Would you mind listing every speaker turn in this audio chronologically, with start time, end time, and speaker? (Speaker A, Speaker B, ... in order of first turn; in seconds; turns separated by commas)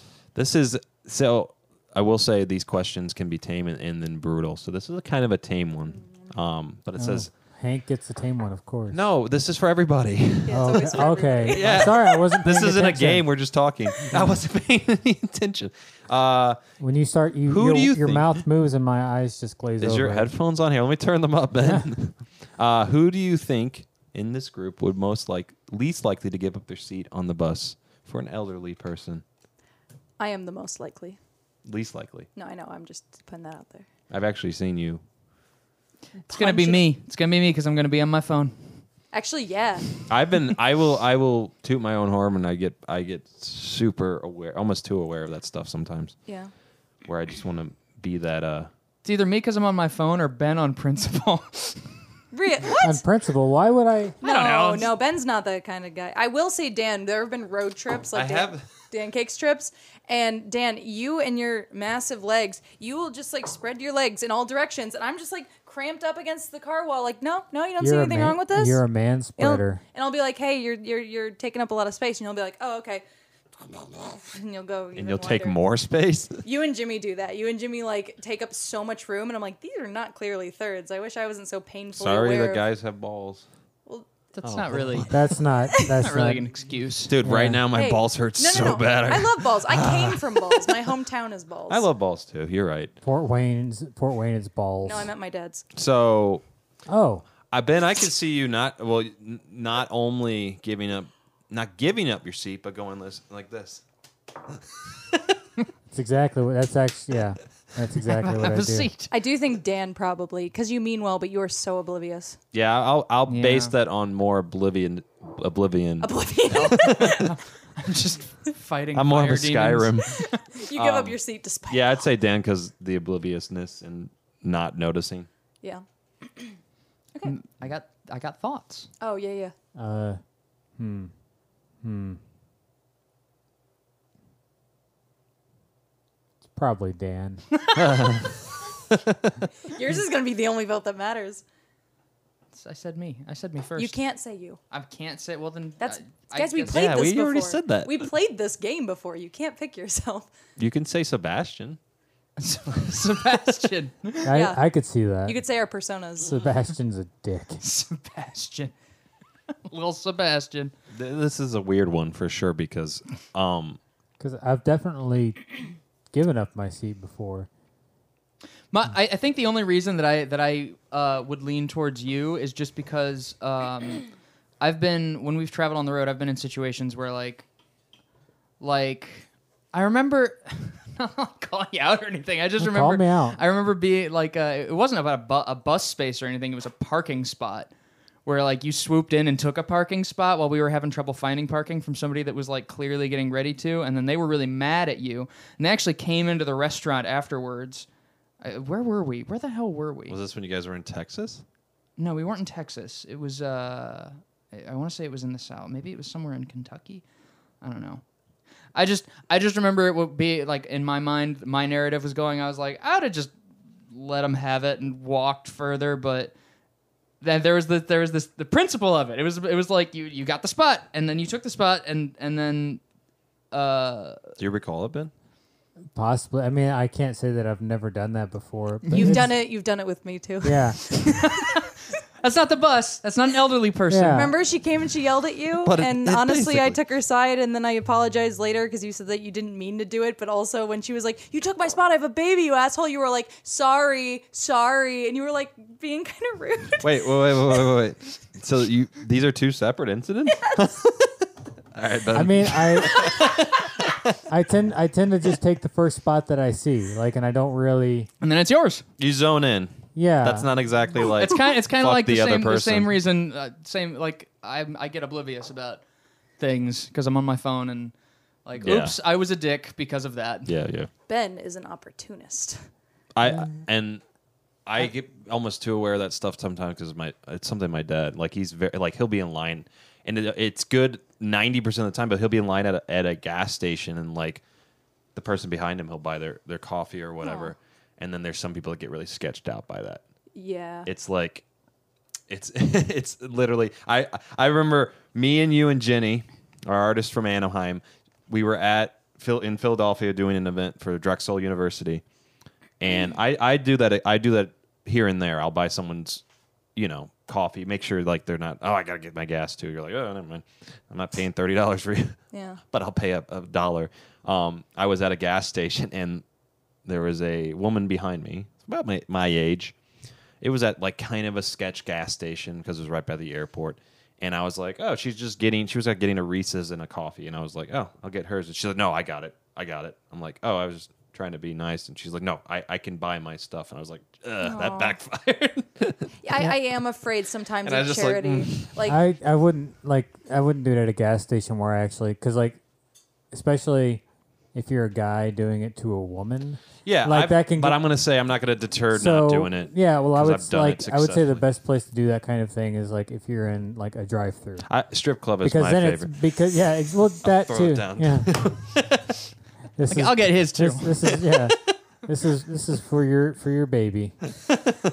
Speaker A: 0.3-7.3, Speaker B: 5.9-6.4, Speaker C: 7.0-9.0, Speaker A: 8.9-16.6, Speaker B: 10.4-12.2, Speaker C: 10.5-13.3, Speaker C: 14.0-14.4, Speaker C: 16.8-20.3, Speaker A: 17.5-18.4, Speaker A: 19.8-29.2, Speaker B: 30.2-31.2, Speaker A: 31.6-32.3, Speaker B: 32.3-33.9, Speaker A: 34.1-35.0, Speaker B: 36.3-36.9, Speaker D: 36.3-38.7, Speaker B: 39.1-39.9, Speaker A: 40.1-46.1, Speaker B: 46.3-46.5, Speaker A: 47.0-48.7, Speaker D: 49.0-51.8, Speaker B: 52.3-53.0, Speaker C: 52.8-54.2, Speaker D: 54.2-54.9, Speaker B: 54.2-68.8, Speaker A: 58.1-58.6, Speaker C: 67.8-69.8, Speaker B: 69.4-73.0, Speaker B: 73.6-75.6, Speaker A: 75.0-76.4, Speaker B: 76.4-82.6, Speaker A: 82.0-83.5, Speaker D: 84.3-87.1, Speaker A: 84.4-85.1, Speaker C: 85.1-86.5, Speaker B: 85.7-86.0, Speaker A: 87.1-90.9, Speaker C: 87.2-87.6, Speaker B: 87.7-91.8, Speaker A: 91.7-92.9, Speaker C: 93.0-95.1, Speaker B: 94.8-95.6, Speaker A: 95.7-96.4, Speaker C: 96.9-97.2, Speaker A: 97.5-103.8, Speaker C: 105.9-108.9, Speaker D: 108.0-109.1, Speaker B: 109.1-112.4, Speaker A: 112.5-117.3, Speaker D: 113.3-113.7, Speaker B: 116.0-117.3, Speaker D: 116.5-120.4, Speaker A: 118.9-121.2, Speaker B: 120.5-122.0, Speaker A: 121.7-125.3, Speaker B: 125.6-126.6, Speaker D: 127.2-128.9, Speaker B: 129.0-129.5, Speaker C: 129.7-130.2, Speaker C: 130.8-131.1, Speaker C: 131.8-132.2, Speaker C: 136.5-137.4, Speaker A: 137.8-138.4, Speaker A: 138.9-139.3, Speaker B: 139.6-141.4, Speaker D: 142.5-143.9, Speaker B: 143.8-144.6, Speaker D: 144.7-147.2, Speaker B: 145.8-150.3, Speaker A: 146.7-148.1, Speaker A: 150.6-151.8, Speaker D: 152.4-154.3, Speaker C: 154.2-155.4, Speaker B: 154.3-154.6, Speaker B: 155.2-156.4, Speaker C: 156.2-157.6, Speaker D: 157.6-158.7, Speaker D: 159.6-160.7, Speaker A: 160.9-163.8, Speaker C: 164.2-165.4, Speaker C: 166.1-167.5, Speaker D: 168.7-174.0, Speaker D: 174.6-177.4, Speaker D: 178.6-187.7, Speaker C: 182.6-183.4, Speaker D: 188.2-197.8, Speaker D: 198.4-200.2, Speaker A: 200.1-201.4, Speaker D: 202.0-207.0, Speaker D: 207.6-208.0, Speaker D: 208.7-213.3, Speaker D: 213.9-216.3, Speaker D: 217.2-222.8, Speaker D: 223.5-224.3, Speaker A: 224.4-225.1, Speaker C: 225.9-229.4, Speaker D: 228.8-229.2, Speaker B: 228.9-231.3, Speaker C: 230.4-230.8, Speaker D: 230.9-234.3, Speaker C: 233.9-234.3, Speaker B: 234.1-247.1, Speaker A: 235.6-236.8, Speaker A: 246.8-251.1, Speaker A: 251.7-254.2, Speaker C: 252.1-253.3, Speaker C: 254.2-258.1, Speaker D: 258.2-258.8, Speaker A: 259.0-262.9, Speaker C: 259.9-260.5, Speaker D: 261.0-265.8, Speaker D: 266.4-267.9, Speaker D: 268.4-270.5, Speaker A: 268.6-268.9, Speaker A: 270.4-270.9, Speaker B: 271.1-272.7, Speaker A: 273.1-274.0, Speaker A: 274.6-284.4, Speaker A: 285.1-290.0, Speaker B: 287.2-287.5, Speaker B: 290.3-290.9, Speaker A: 290.9-291.4, Speaker A: 292.3-302.0, Speaker A: 302.8-306.2, Speaker A: 306.8-312.2, Speaker B: 312.3-312.6, Speaker A: 312.7-316.2, Speaker A: 316.8-319.7, Speaker A: 320.4-336.1, Speaker B: 334.4-335.0, Speaker B: 336.2-339.0, Speaker A: 337.6-338.7, Speaker C: 338.8-342.6, Speaker C: 343.3-344.0, Speaker C: 344.5-347.8, Speaker A: 346.8-351.4, Speaker C: 348.9-354.6, Speaker A: 354.6-356.1, Speaker C: 355.4-358.4, Speaker A: 357.2-359.3, Speaker C: 359.8-364.1, Speaker D: 359.9-360.9